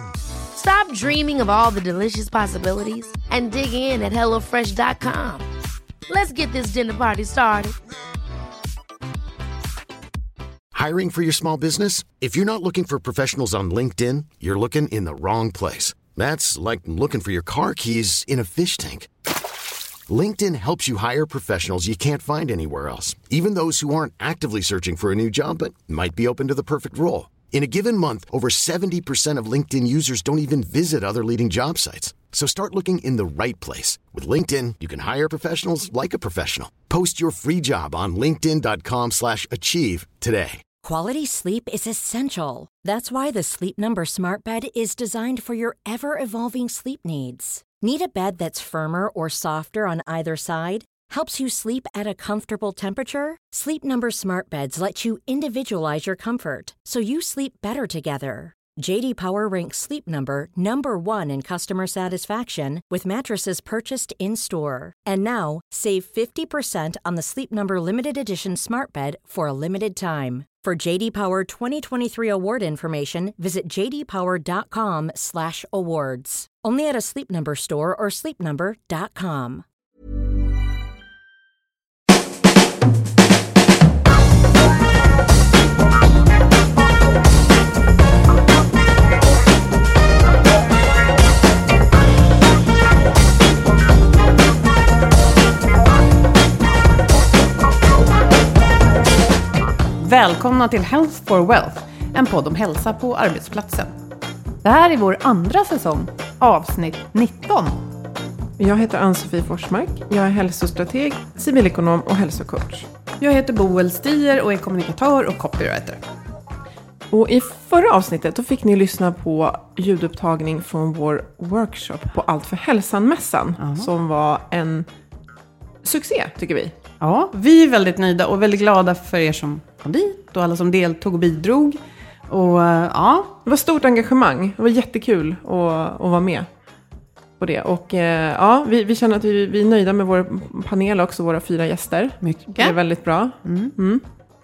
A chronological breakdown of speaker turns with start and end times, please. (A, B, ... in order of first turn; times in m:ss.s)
0:00.5-0:05.4 A
0:06.1-0:07.8 A
0:10.7-0:19.1 B
0:20.1-0:40.6 B
0:40.8-1:19.6 C
1:40.0-1:43.9 D
1:44.6-1:47.8 D
1:48.6-1:52.9 E
1:53.2-1:56.0 D
1:57.1-2:04.9 E
2:03.6-2:03.9 D
2:05.8-2:06.7 E
2:07.0-2:13.4 D
2:13.4-2:16.5 E
2:17.4-2:24.0 E
2:22.2-2:22.8 D
2:23.4-2:23.7 D